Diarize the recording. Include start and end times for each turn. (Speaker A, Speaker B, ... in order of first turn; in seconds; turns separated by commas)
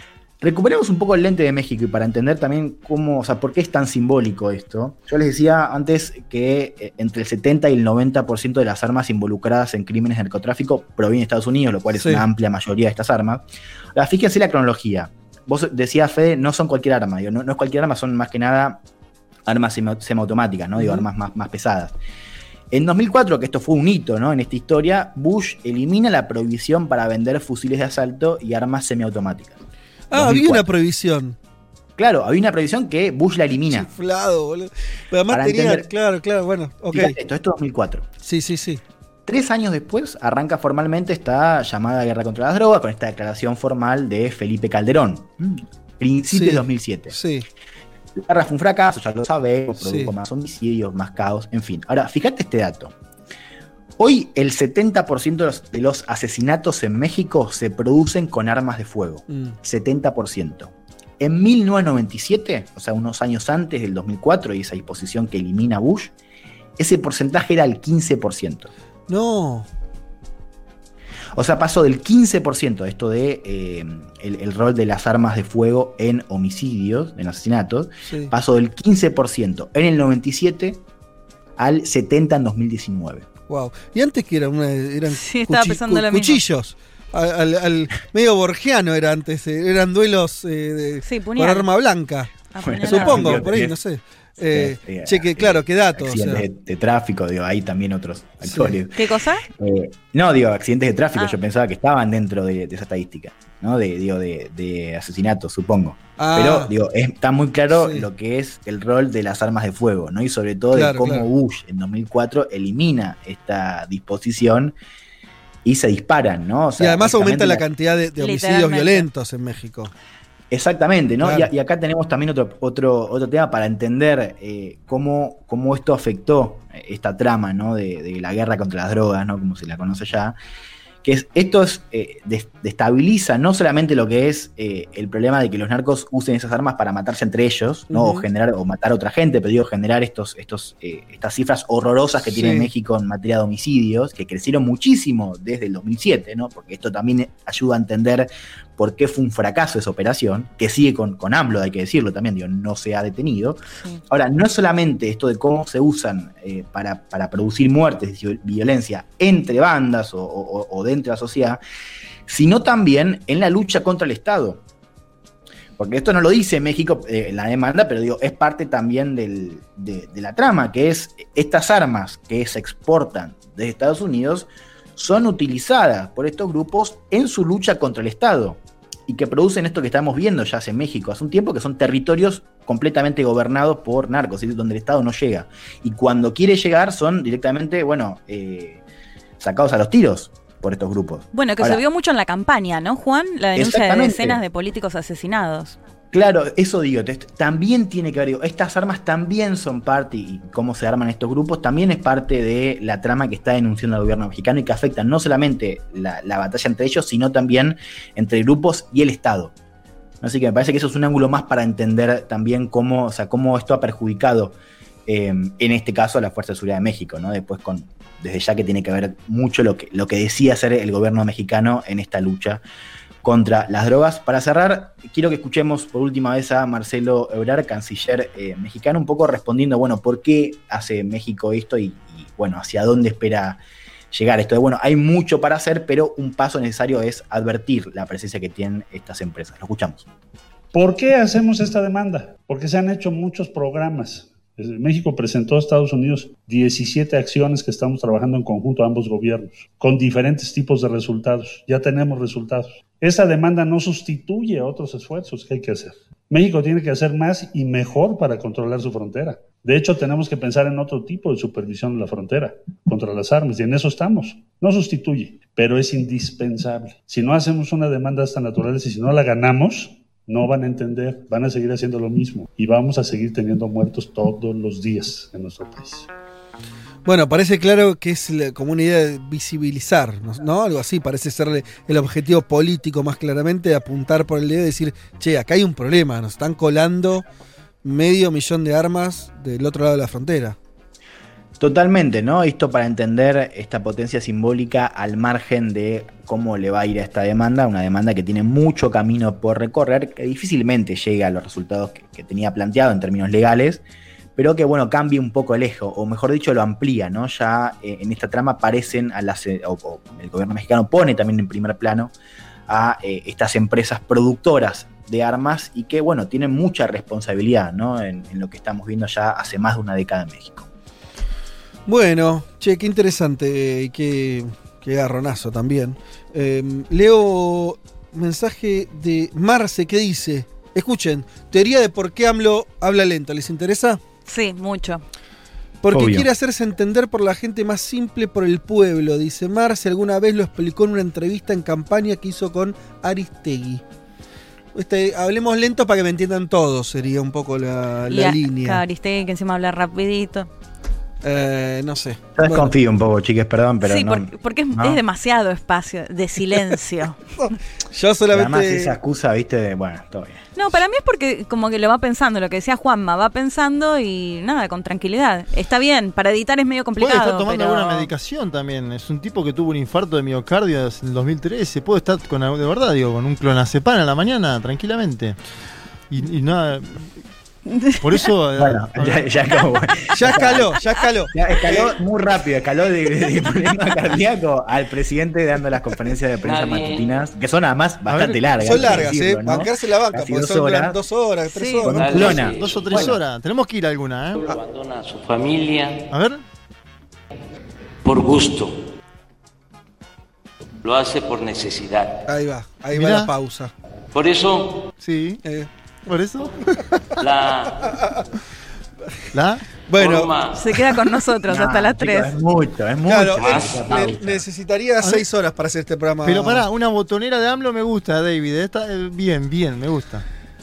Speaker A: 0.4-13.4, Speaker B: 12.0-12.3, Speaker A: 13.9-18.8, Speaker A: 19.5-21.9, Speaker B: 20.8-21.1, Speaker A: 22.7-29.6, Speaker B: 30.1-31.4, Speaker A: 30.1-30.7, Speaker A: 32.0-33.9, Speaker B: 33.7-37.2, Speaker A: 35.3-35.9, Speaker A: 36.9-38.1, Speaker B: 38.2-38.8, Speaker A: 39.3-47.2, Speaker B: 46.3-47.5, Speaker A: 48.2-52.9, Speaker B: 49.8-50.1, Speaker A: 54.0-66.1, Speaker B: 59.3-59.6, Speaker A: 66.8-68.7, Speaker B: 69.1-69.7, Speaker A: 71.3-80.8, Speaker B: 78.1-78.3, Speaker A: 81.6-83.3, Speaker B: 83.5-92.3, Speaker C: 85.1-86.4, Speaker C: 91.0-91.7, Speaker C: 92.5-93.5, Speaker A: 92.6-93.8, Speaker B: 92.8-96.5, Speaker A: 94.5-114.8, Speaker B: 98.5-98.8, Speaker C: 99.0-99.5, Speaker B: 106.2-106.7, Speaker B: 107.7-108.1, Speaker B: 110.7-111.3, Speaker A: 115.6-117.7, Speaker B: 116.8-119.9, Speaker C: 118.2-119.1, Speaker A: 120.5-130.4, Speaker B: 121.2-121.5, Speaker A: 131.0-161.6, Speaker B: 137.9-138.3, Speaker B: 142.3-142.7, Speaker A: 162.3-164.6, Speaker A: 165.8-188.8, Speaker A: 189.4-191.8, Speaker C: 191.3-195.8, Speaker A: 193.6-194.4, Speaker A: 196.1-209.5, Speaker A: 210.2-222.6, Speaker A: 223.2-233.6, Speaker A: 234.1-240.1, Speaker D: 240.7-276.1, Speaker B: 277.1-287.3, Speaker B: 287.8-290.6, Speaker A: 291.6-303.8, Speaker A: 304.4-312.1, Speaker A: 312.7-320.7, Speaker B: 321.9-334.0, Speaker C: 334.3-335.0, Speaker B: 335.8-343.8, Speaker A: 335.9-336.3, Speaker B: 344.8-348.8, Speaker C: 348.1-350.5, Speaker B: 351.2-352.7, Speaker A: 352.4-355.0, Speaker C: 353.8-357.3, Speaker B: 357.9-359.0, Speaker A: 358.3-360.4, Speaker C: 360.6-368.1, Speaker E: 367.0-375.4, Speaker E: 376.1-377.2, Speaker C: 377.7-378.3, Speaker E: 378.0-379.3, Speaker A: 378.6-380.8, Speaker B: 380.1-382.0, Speaker A: 381.3-391.0, Speaker F: 386.4-387.1, Speaker E: 388.1-389.1, Speaker B: 388.6-393.1, Speaker C: 391.5-391.9, Speaker F: 391.8-393.1, Speaker A: 392.0-393.2, Speaker E: 392.6-394.4, Speaker F: 394.4-396.1, Speaker E: 396.1-396.4, Speaker F: 398.0-398.8, Speaker F: 400.8-402.2, Speaker B: 402.3-403.7, Speaker E: 402.9-403.3, Speaker F: 404.1-404.9, Speaker E: 405.0-405.4, Speaker B: 405.4-405.7, Speaker E: 406.1-406.6, Speaker F: 407.2-408.0, Speaker B: 408.0-408.2, Speaker E: 409.3-409.6, Speaker B: 409.9-410.3, Speaker F: 409.9-410.8, Speaker C: 410.5-412.4, Speaker A: 411.5-414.4, Speaker B: 413.1-416.7, Speaker F: 413.4-414.1, Speaker E: 416.2-420.2